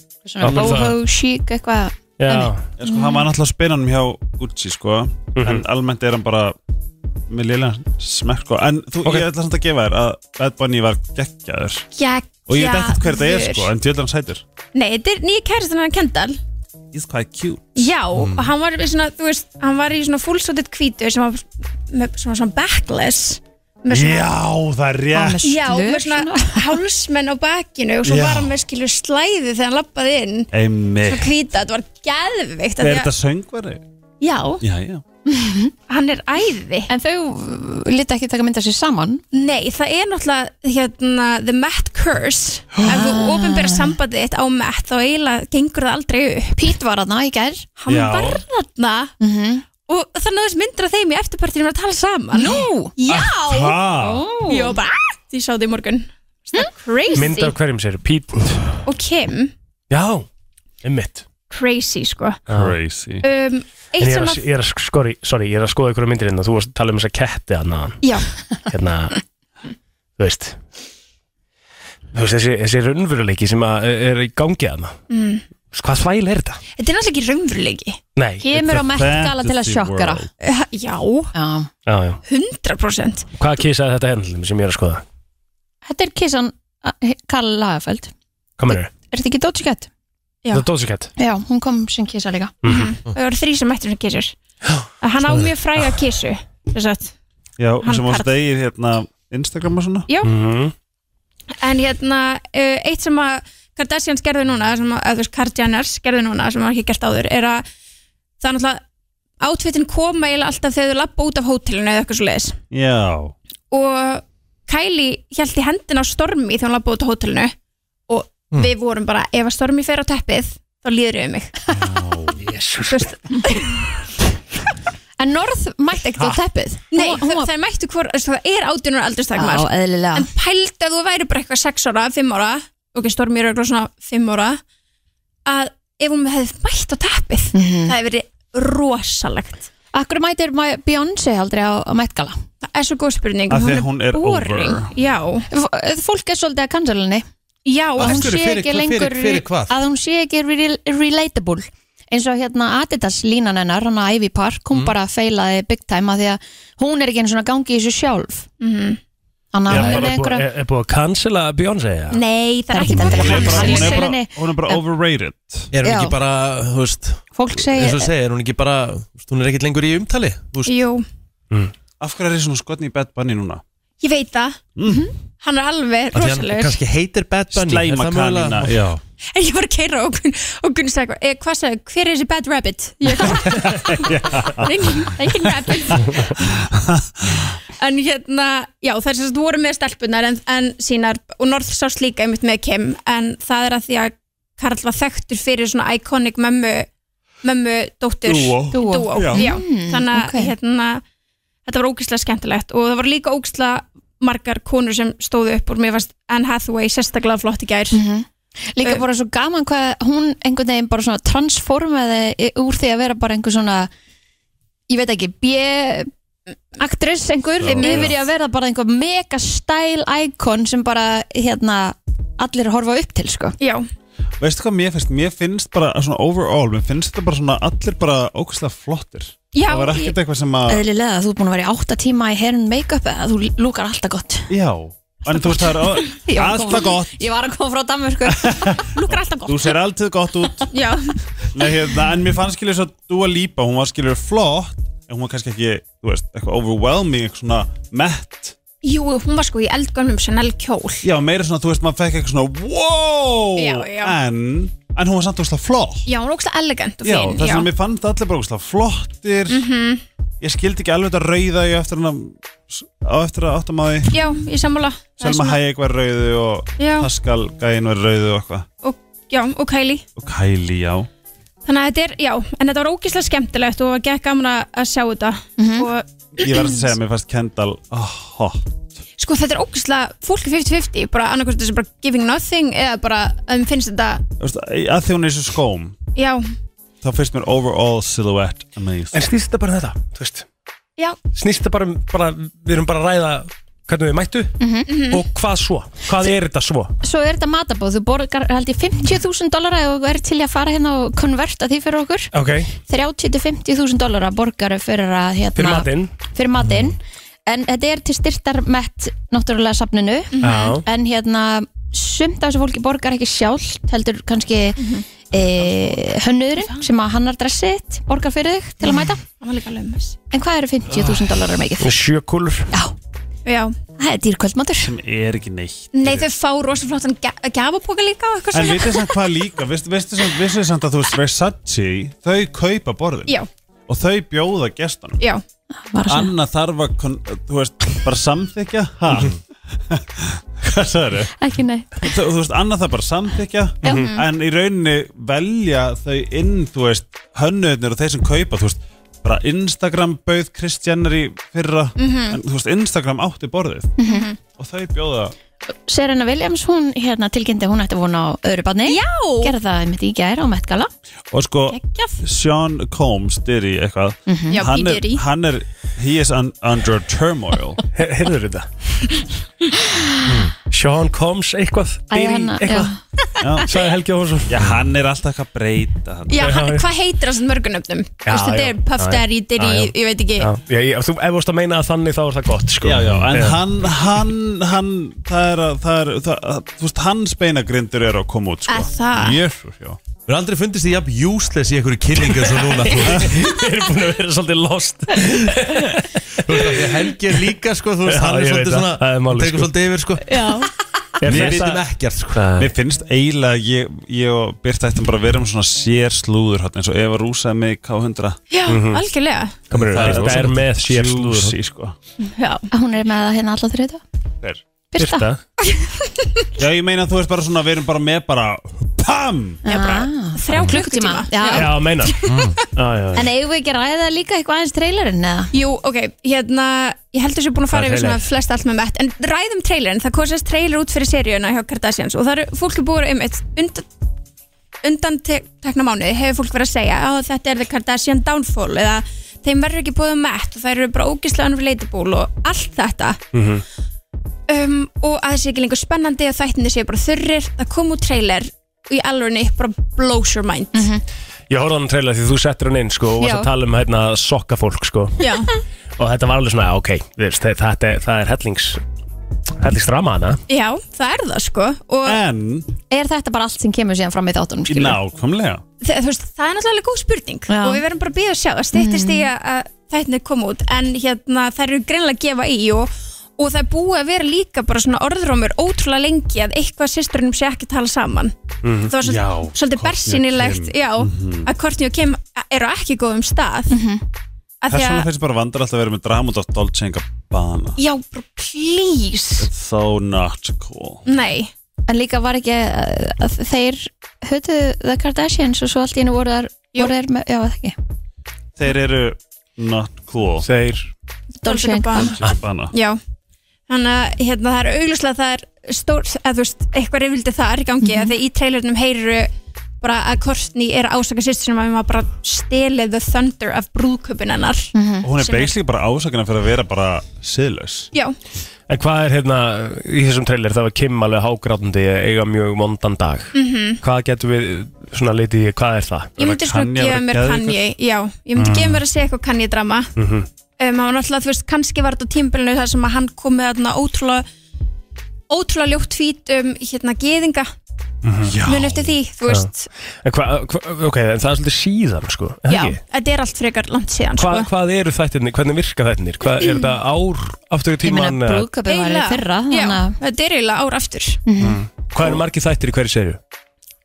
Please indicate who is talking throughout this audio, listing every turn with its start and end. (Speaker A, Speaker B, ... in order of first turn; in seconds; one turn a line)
Speaker A: 0.2-2.5
Speaker B: 0.4-0.9
Speaker C: 0.5-0.7
Speaker B: 2.2-2.6
Speaker C: 2.8-6.5
Speaker D: 2.8-3.2
Speaker B: 5.3-5.6
Speaker C: 7.3-11.9
Speaker D: 11.9-13.7
Speaker C: 12.5-14.4
Speaker D: 14.7-16.4
Speaker C: 16.9-18.5
Speaker D: 17.7-24.3
Speaker C: 23.9-25.4
Speaker A: 25.1-26.8
Speaker D: 25.4-30.5
Speaker C: 28.0-28.5
Speaker C: 30.5-31.3
Speaker D: 31.0-33.1
Speaker C: 32.8-33.8
Speaker D: 34.2-34.6
Speaker C: 34.6-35.0
Speaker A: 35.3-35.7
Speaker D: 35.9-36.9
Speaker A: 36.9-39.2
Speaker D: 39.3-46.6
Speaker A: 42.9-44.0
Speaker A: 46.6-47.7
Speaker D: 47.8-49.1
Speaker C: 47.9-48.4
Speaker A: 49.2-49.6
Speaker D: 49.8-53.8
Speaker A: 52.3-52.9
Speaker C: 53.1-54.2
Speaker A: 54.0-54.8
Speaker D: 54.4-57.5
Speaker B: 57.1-58.7
Speaker D: 58.8-59.5
Speaker B: 59.9-60.2
Speaker B: 60.8-61.2
Speaker D: 61.5-62.5
Speaker B: 62.5-62.7
Speaker C: 62.5-63.2
Speaker D: 63.2-64.4
Speaker B: 64.0-68.0
Speaker D: 68.0-68.3
Speaker B: 68.7-69.2
Speaker B: 70.2-70.6
Speaker B: 72.1-75.0
Speaker D: 75.1-75.4
Speaker B: 75.7-76.6
Speaker D: 76.8-78.0
Speaker B: 78.2-78.6
Speaker A: 78.4-80.2
Speaker C: 78.6-80.3
Speaker D: 80.4-81.3
Speaker A: 81.3-81.7
Speaker B: 81.9-82.2
Speaker D: 82.2-83.3
Speaker B: 83.4-85.0
Speaker A: 85.8-88.1
Speaker B: 88.6-88.9
Speaker A: 88.7-89.9
Speaker B: 90.5-91.1
Speaker A: 91.2-92.7
Speaker B: 92.6-92.9
Speaker D: 92.6-94.3
Speaker D: 95.0-97.1
Speaker C: 97.6-100.1
Speaker D: 97.8-98.3
Speaker B: 100.2-100.7
Speaker D: 101.6-107.6
Speaker D: 108.4-108.8
Speaker D: 109.4-112.5
Speaker C: 112.7-113.3
Speaker D: 113.7-117.5
Speaker D: 118.1-121.6
Speaker C: 121.7-122.4
Speaker B: 122.5-123.0
Speaker D: 122.8-123.9
Speaker A: 125.2-127.5
Speaker D: 126.9-134.6
Speaker A: 129.3-130.3
Speaker D: 135.4-139.7
Speaker A: 137.5-137.9
Speaker A: 139.9-142.4
Speaker D: 142.6-145.4
Speaker C: 143.5-144.9
Speaker A: 145.5-147.2
Speaker D: 147.7-148.3
Speaker A: 147.9-158.4
Speaker E: 148.0-149.8
Speaker D: 158.6-159.0
Speaker A: 159.5-160.4
Speaker C: 159.7-160.1
Speaker B: 159.7-162.2
Speaker D: 162.1-164.1
Speaker A: 162.7-164.8
Speaker C: 162.9-165.7
Speaker E: 165.7-170.7
Speaker A: 165.8-166.2
Speaker A: 167.3-168.1
Speaker D: 170.6-171.1
Speaker C: 172.0-173.6
Speaker D: 174.0-174.6
Speaker C: 174.8-175.0
Speaker D: 175.4-176.8
Speaker E: 176.1-178.8
Speaker C: 177.5-179.0
Speaker D: 179.3-186.4
Speaker C: 183.6-185.1
Speaker C: 186.6-187.4
Speaker D: 187.8-196.9
Speaker D: 197.4-201.0
Speaker C: 198.2-199.4
Speaker A: 198.7-200.5
Speaker D: 201.7-208.0
Speaker A: 207.9-213.9
Speaker A: 214.9-216.1
Speaker A: 216.8-223.6
Speaker C: 217.6-218.1
Speaker D: 217.6-218.1
Speaker D: 223.6-223.9
Speaker C: 224.4-230.8
Speaker D: 229.5-230.2
Speaker A: 230.7-234.5
Speaker C: 234.5-237.2
Speaker A: 235.3-238.8
Speaker C: 238.3-240.7
Speaker D: 238.9-239.8
Speaker D: 240.7-241.2
Speaker C: 241.5-248.6
Speaker D: 248.8-251.1
Speaker C: 251.0-256.0
Speaker D: 253.6-254.2
Speaker D: 256.1-257.7
Speaker C: 257.0-259.6
Speaker D: 259.5-260.0
Speaker C: 260.4-264.1
Speaker D: 264.1-265.6
Speaker C: 265.2-268.7
Speaker D: 266.8-267.1
Speaker D: 268.8-270.0
Speaker C: 270.2-271.1
Speaker D: 271.6-276.9
Speaker A: 275.6-275.9
Speaker C: 276.4-279.0
Speaker D: 279.2-284.2
Speaker C: 284.4-286.0
Speaker D: 286.1-286.4
Speaker C: 287.0-289.3
Speaker B: 289.1-290.4
Speaker B: 291.3-294.6
Speaker A: 294.6-294.9
Speaker D: 294.9-295.2
Speaker B: 295.1-296.9
Speaker A: 297.0-302.3
Speaker B: 302.3-302.7
Speaker A: 302.9-319.2
Speaker B: 305.6-306.1
Speaker D: 310.3-310.8
Speaker B: 310.4-310.8
Speaker D: 314.8-315.1
Speaker D: 316.5-316.9
Speaker D: 318.8-320.2
Speaker A: 320.3-322.0
Speaker B: 321.8-322.7
Speaker D: 323.4-323.7
Speaker A: 324.0-324.9
Speaker C: 324.8-326.3
Speaker D: 325.9-329.2
Speaker C: 328.5-333.3
Speaker C: 333.9-335.2
Speaker A: 335.9-336.3
Speaker C: 336.1-339.4
Speaker C: 339.9-341.3
Speaker A: 341.4-342.1
Speaker C: 342.0-353.9
Speaker D: 343.9-344.2
Speaker D: 352.0-352.4
Speaker A: 354.0-354.3
Speaker D: 354.0-354.4
Speaker C: 354.5-355.3
Speaker A: 355.9-360.9
Speaker D: 358.9-359.5
Speaker C: 361.3-367.8
Speaker D: 361.7-362.2
Speaker A: 364.3-364.6
Speaker D: 364.5-365.2
Speaker B: 367.9-368.7
Speaker B: 370.7-372.9
Speaker A: 372.1-373.0
Speaker C: 373.4-373.7
Speaker B: 373.7-374.8
Speaker C: 374.5-376.5
Speaker D: 376.3-380.5
Speaker B: 376.4-376.9
Speaker B: 378.2-383.6
Speaker C: 382.8-390.0
Speaker D: 388.7-389.4
Speaker E: 390.2-393.3
Speaker B: 393.2-397.1
Speaker E: 396.4-400.2
Speaker B: 398.1-399.7
Speaker B: 401.2-401.8
Speaker E: 401.2-402.4
Speaker C: 401.2-401.8
Speaker B: 402.3-402.7
Speaker C: 402.6-408.4
Speaker D: 408.5-409.7
Speaker B: 408.7-409.0
Speaker B: 409.7-411.6
Speaker C: 409.7-411.9
Speaker E: 409.9-410.5
Speaker D: 412.2-412.7
Speaker A: 412.7-414.0
Speaker A: 414.9-415.3
Speaker B: 414.9-415.4
Speaker D: 415.6-416.4
Speaker C: 416.6-419.6
Speaker A: 419.6-421.7
Speaker D: 419.6-422.6
Speaker B: 421.5-422.1
Speaker E: 422.3-422.6
Speaker B: 422.8-423.3
Speaker A: 423.1-425.5
Speaker D: 425.5-433.9
Speaker E: 427.7-428.2
Speaker B: 427.8-428.1
Speaker D: 434.8-443.2
Speaker B: 443.3-443.6
Speaker D: 444.5-450.9
Speaker A: 450.7-451.0
Speaker B: 451.5-455.2
Speaker A: 453.2-453.5
Speaker D: 455.2-455.5
Speaker B: 456.0-458.8
Speaker B: 459.6-460.4
Speaker D: 460.5-462.2
Speaker C: 462.1-462.7
Speaker A: 462.9-465.0
Speaker C: 464.7-465.6
Speaker D: 465.8-478.3
Speaker A: 467.5-467.8
Speaker A: 468.7-469.3
Speaker B: 478.6-478.9
Speaker D: 478.9-483.7
Speaker C: 479.0-481.5
Speaker A: 483.7-484.0
Speaker D: 484.6-485.1
Speaker C: 484.7-487.8
Speaker D: 487.8-489.5
Speaker C: 489.4-491.0
Speaker D: 491.1-491.5
Speaker A: 491.9-497.8
Speaker C: 498.6-500.5
Speaker B: 500.4-500.9
Speaker A: 501.4-502.2
Speaker D: 501.4-502.2
Speaker C: 501.9-502.7
Speaker D: 502.7-503.0
Speaker D: 503.7-515.6
Speaker A: 507.8-508.1
Speaker A: 514.7-515.1
Speaker C: 515.0-517.9
Speaker B: 518.7-526.2
Speaker D: 523.3-523.8
Speaker D: 526.2-529.9
Speaker C: 526.2-527.6
Speaker C: 528.4-528.8
Speaker B: 530.0-530.2
Speaker D: 530.6-534.2
Speaker D: 535.3-537.5
Speaker C: 538.0-539.0
Speaker D: 538.4-539.7
Speaker B: 539.2-539.5
Speaker B: 540.0-542.8
Speaker D: 542.5-544.5
Speaker B: 544.2-548.5
Speaker D: 546.4-546.7
Speaker A: 547.8-550.0
Speaker D: 548.6-551.2
Speaker A: 551.2-551.6
Speaker B: 551.8-553.2